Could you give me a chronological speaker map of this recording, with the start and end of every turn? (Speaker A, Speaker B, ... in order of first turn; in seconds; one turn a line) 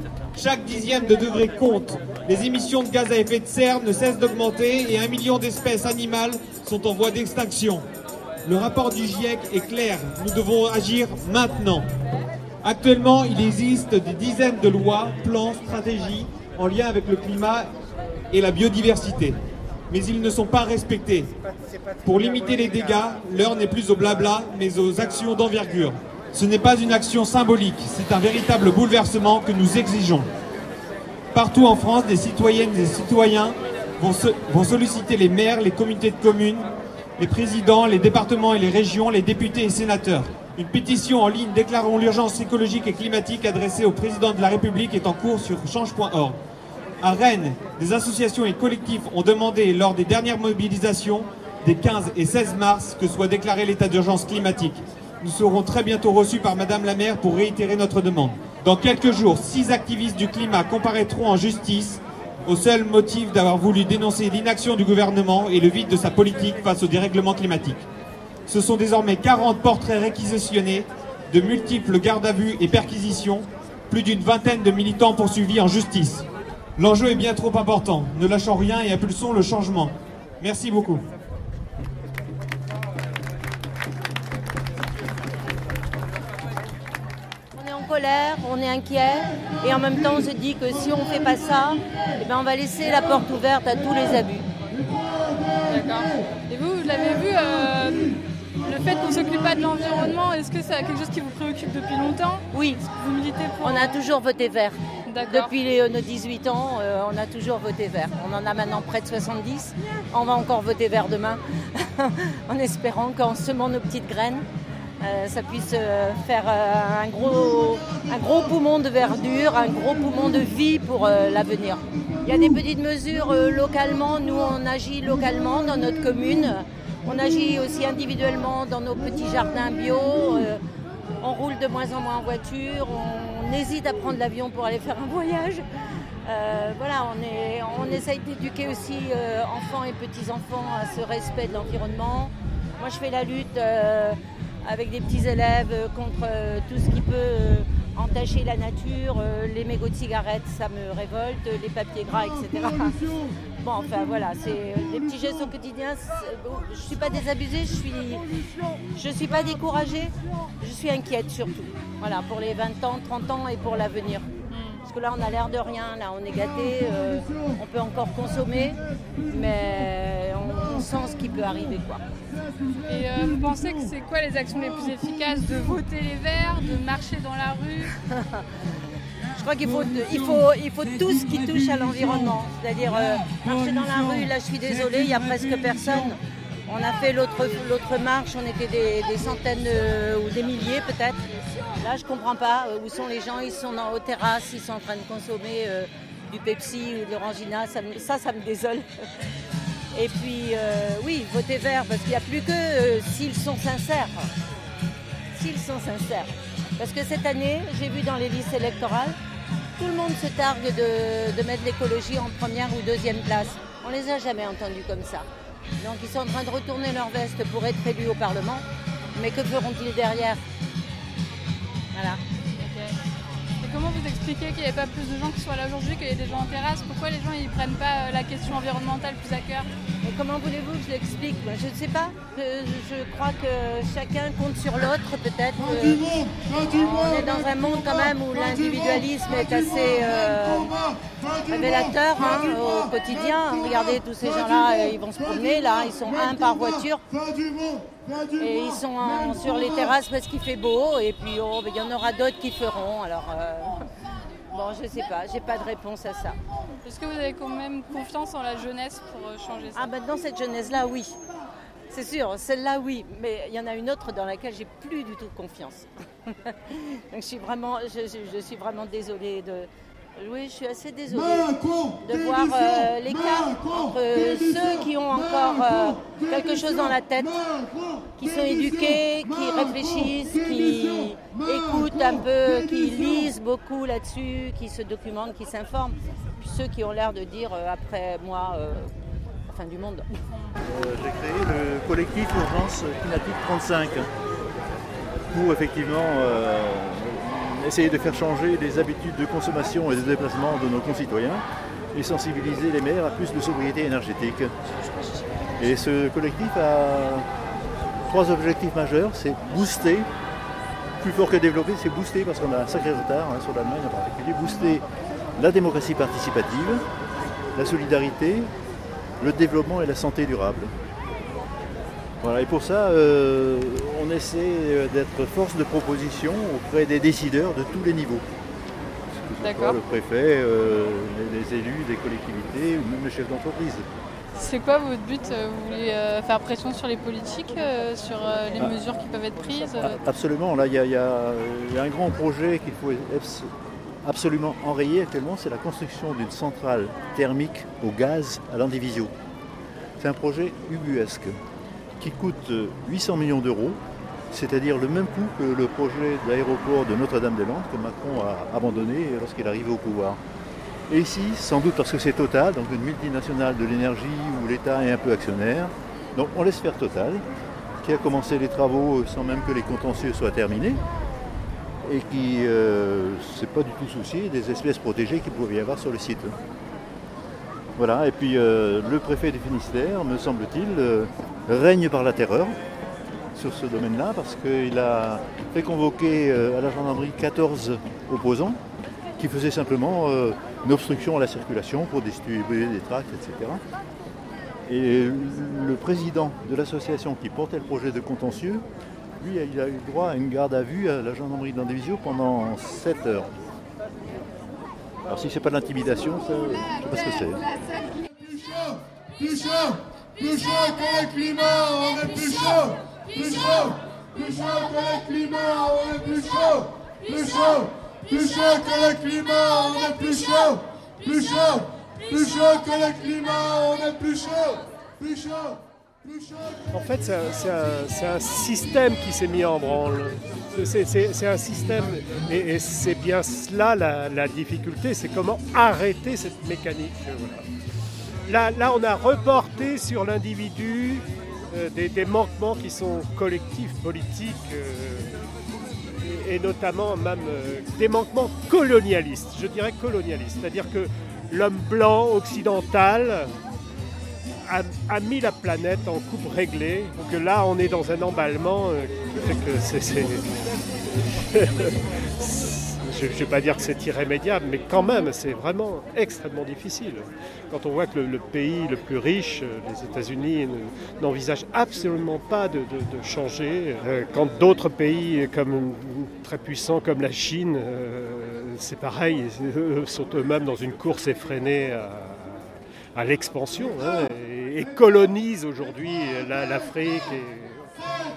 Speaker A: 0.3-7.8
Speaker A: 8.5-11.8
Speaker A: 12.6-17.7
Speaker A: 18.3-19.4
Speaker A: 19.9-21.3
Speaker A: 22.1-30.2
Speaker A: 31.3-36.7
Speaker A: 37.2-46.4
Speaker A: 47.0-67.8
Speaker A: 68.5-76.2
Speaker A: 76.8-81.0
Speaker B: 87.5-94.5
Speaker C: 95.7-103.9
Speaker B: 102.5-102.9
Speaker B: 103.6-114.4
Speaker C: 105.1-105.5
Speaker B: 115.0-130.6
Speaker B: 131.2-135.6
Speaker B: 136.3-153.1
Speaker B: 153.6-158.2
Speaker B: 158.9-164.3
Speaker C: 164.5-164.8
Speaker B: 164.8-172.0
Speaker C: 172.9-177.9
Speaker B: 178.1-178.4
Speaker B: 179.3-191.2
Speaker B: 191.8-198.9
Speaker B: 199.9-204.3
Speaker B: 205.3-209.2
Speaker B: 209.8-215.3
Speaker B: 215.8-220.4
Speaker B: 221.9-222.2
Speaker C: 222.6-223.0
Speaker C: 223.6-229.7
Speaker B: 230.0-240.8
Speaker B: 241.4-247.0
Speaker B: 248.3-253.8
Speaker B: 254.5-256.4
Speaker C: 256.8-259.9
Speaker B: 259.8-261.1
Speaker B: 261.9-277.4
Speaker B: 278.1-288.9
Speaker B: 289.5-290.2
Speaker D: 290.6-294.1
Speaker D: 295.3-304.5
Speaker D: 305.6-307.3
Speaker D: 308.0-310.1
Speaker D: 311.0-314.8
Speaker D: 315.4-316.8
Speaker D: 317.5-318.5
Speaker D: 319.2-320.7
Speaker D: 322.2-328.2
Speaker D: 329.1-333.9
Speaker C: 329.4-329.8
Speaker C: 334.4-339.9
Speaker D: 339.8-343.5
Speaker D: 344.0-349.1
Speaker D: 350.0-351.3
Speaker D: 352.0-353.8
Speaker D: 354.3-360.2
Speaker D: 360.9-367.2
Speaker D: 367.8-370.8
Speaker D: 371.8-376.4
Speaker D: 377.8-382.6
Speaker D: 383.3-388.6
Speaker D: 389.2-393.6
Speaker D: 394.7-398.6
Speaker D: 399.2-403.3
Speaker D: 405.1-407.4
Speaker E: 410.6-412.7
Speaker E: 413.2-420.6
Speaker E: 421.3-421.6
Speaker E: 422.1-424.0
Speaker F: 426.7-437.4
Speaker F: 438.2-445.2
Speaker F: 445.9-453.3
Speaker F: 454.4-487.7